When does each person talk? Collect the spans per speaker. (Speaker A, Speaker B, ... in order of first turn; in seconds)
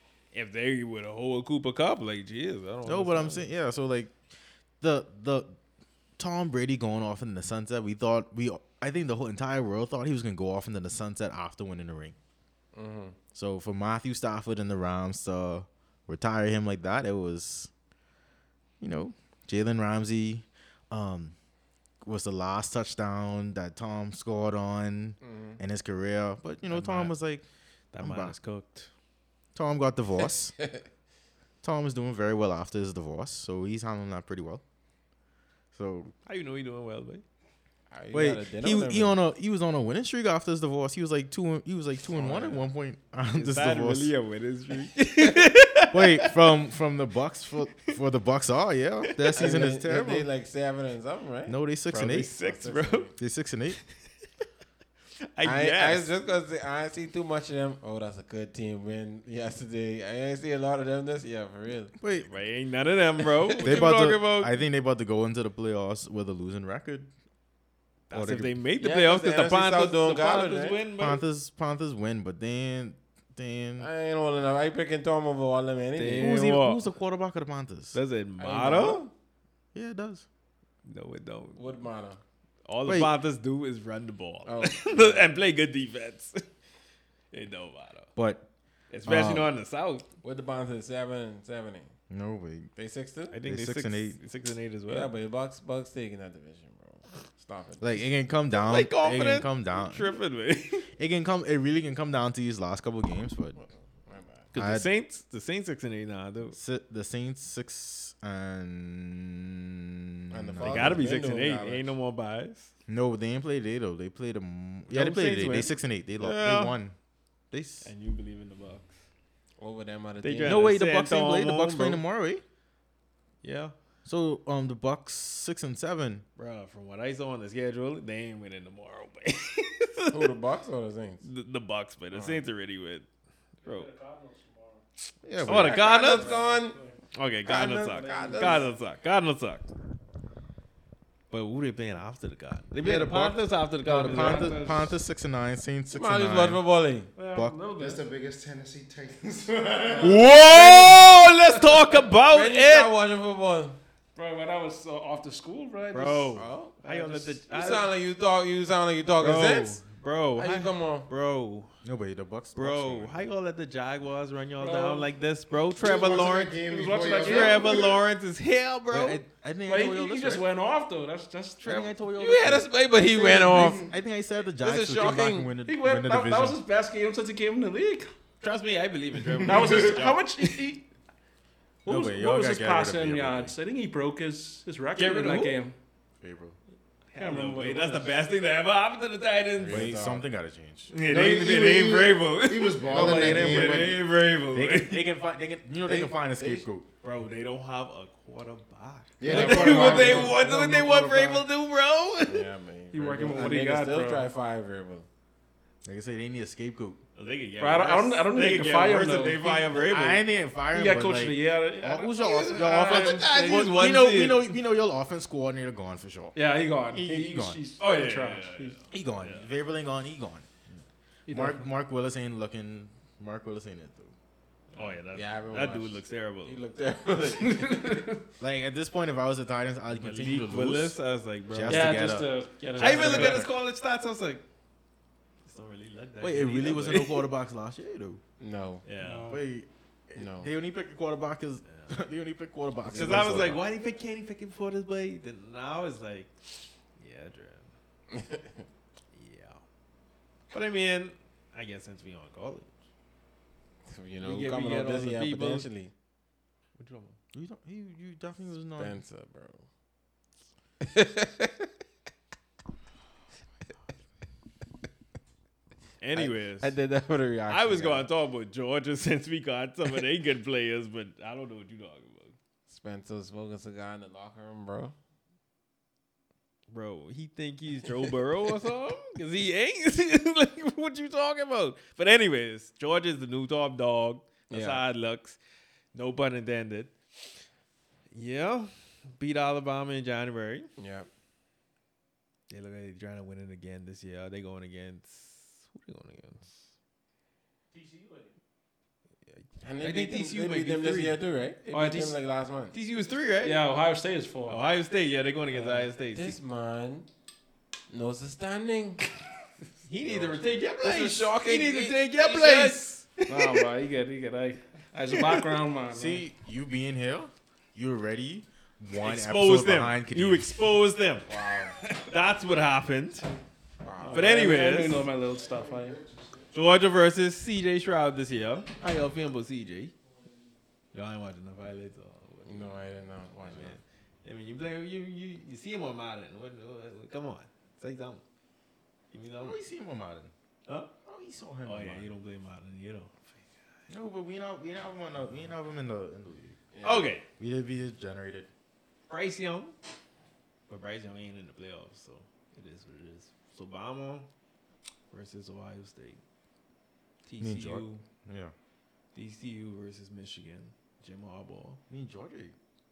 Speaker A: 0.3-3.5, 26.7-27.1, 27.9-28.9, 36.3-37.2, 43.3-46.4, 49.1-49.4, 51.9-53.1, 55.4-56.1, 62.2-64.6, 68.1-71.2, 76.0-76.9, 77.9-79.0, 80.8-81.7, 82.7-86.4, 87.3-88.1, 88.9-90.1, 93.3-95.1, 98.5-100.9, 104.5-106.6, 110.6-112.7, 116.2-116.8, 117.8-118.9, 120.2-122.0, 123.4-123.7, 126.4-130.3, 131.2-133.1, 133.7-133.9, 135.4-136.4, 137.1-139.7, 141.3-144.8, 150.0-152.9, 155.9-157.9, 159.2-161.7, 162.6-169.2, 178.4-180.7, 185.0-185.6, 187.1-189.9, 190.9-195.1, 197.0-202.5, 207.2-210.3, 212.7-214.5, 217.8-219.5, 224.7-226.6, 229.9-232.2, 232.8-234.4, 235.5-237.3, 238.9-239.4, 241.7-242.0, 242.9-247.7, 249.1-249.6, 250.5-252.7, 254.2-255.7, 256.8-257.2, 266.0-266.8, 267.5-272.4, 276.7-285.4, 285.9-286.9, 288.1-290.7, 292.5-296.7, 299.8-302.2, 302.7-303.6, 304.5-306.4, 309.8-313.7, 315.1-315.4, 319.0-321.3, 321.9-323.3, 324.1-325.1, 326.5-329.9, 330.9-332.8, 333.4-338.2, 339.1-339.6, 341.6-343.5, 346.8-347.3, 349.1-349.7, 350.7-354.3, 355.1-356.2, 357.3-358.0, 359.1-361.8
Speaker B: 2.9-4.1, 4.8-5.6, 6.2-12.2, 13.3-17.7, 18.8-21.4, 22.0-27.4, 28.0-28.4, 29.6-30.6, 31.6-34.6, 35.7-36.1, 38.1-44.1, 45.9-50.3, 51.5-52.3, 53.2-53.8, 62.0-62.3, 63.6-67.1, 68.1-68.6, 71.0-73.9, 76.2-78.0, 79.7-80.3, 82.8-83.1, 88.2-88.5, 89.0-89.5, 92.1-92.7, 93.5-94.2, 97.8-100.2, 101.0-103.6, 104.6-104.9, 106.5-111.0, 112.9-117.0, 117.5-117.9, 120.4-122.4, 124.0-126.2, 135.2-135.8, 142.8-146.6, 147.3-147.6, 161.8-163.2, 168.9-170.4, 171.6-176.6, 181.8-183.6, 186.2-186.6, 189.7-190.9, 194.5-196.9, 205.8-207.0, 209.7-216.4, 216.9-217.6, 218.9-220.5, 221.3-224.1, 228.4-231.0, 231.5-233.5, 236.2-238.2, 239.3-243.6, 257.3-259.0, 315.9-320.5, 339.4-340.3, 341.0-342.1, 343.9-346.6, 347.4-348.5, 357.4-358.5, 361.9-362.6
Speaker C: 12.7-13.2, 25.2-25.6, 30.6-30.9, 37.9-39.2, 42.1-42.7, 49.4-51.6, 52.2-53.1, 55.4-61.9, 68.8-70.8, 73.8-76.3, 78.4-79.1, 81.5-82.2, 84.5-85.2, 90.2-91.9, 92.8-93.4, 94.9-98.1, 103.6-104.5, 110.3-111.9, 114.9-115.7, 119.6-120.7, 130.1-131.3, 132.1-132.4, 135.5-136.8, 137.4-138.7, 145.9-147.1, 150.5-150.9, 152.3-153.8, 156.4-156.8, 157.5-159.8, 160.4-161.1, 172.2-173.9, 174.6-175.5, 189.6-190.2, 192.9-193.3, 195.8-196.7, 199.3-200.3, 202.2-205.1, 225.1-228.1, 238.4-238.8, 240.2-240.5, 242.9-243.6, 248.1-248.7, 253.9-255.9, 258.8-259.7, 260.8-261.7, 266.1-268.1, 272.7-274.9, 284.5-284.8, 290.8-291.1, 299.6-302.8, 305.5-307.1, 307.9-309.1, 310.1-312.9, 321.3-321.8, 323.8-324.4, 332.4-333.8, 346.7-347.1
Speaker D: 133.6-134.8, 136.0-137.0, 137.9-138.7, 143.9-144.9, 147.2-148.0, 154.2-157.4, 164.6-165.1, 166.6-167.9, 169.7-171.9, 175.7-178.1, 179.4-180.8, 181.8-185.8, 187.2-188.1, 192.9-193.9, 199.3-201.4, 202.9-204.3, 207.6-209.7, 210.7-213.7, 216.3-218.8, 221.3-221.7, 227.4-228.2, 231.7-233.5, 239.0-239.4, 297.7-298.3, 303.4-304.6, 313.3-316.3, 324.0-326.1
Speaker E: 147.7-150.3, 165.8-168.0, 173.5-173.8, 191.1-194.0, 199.2-200.4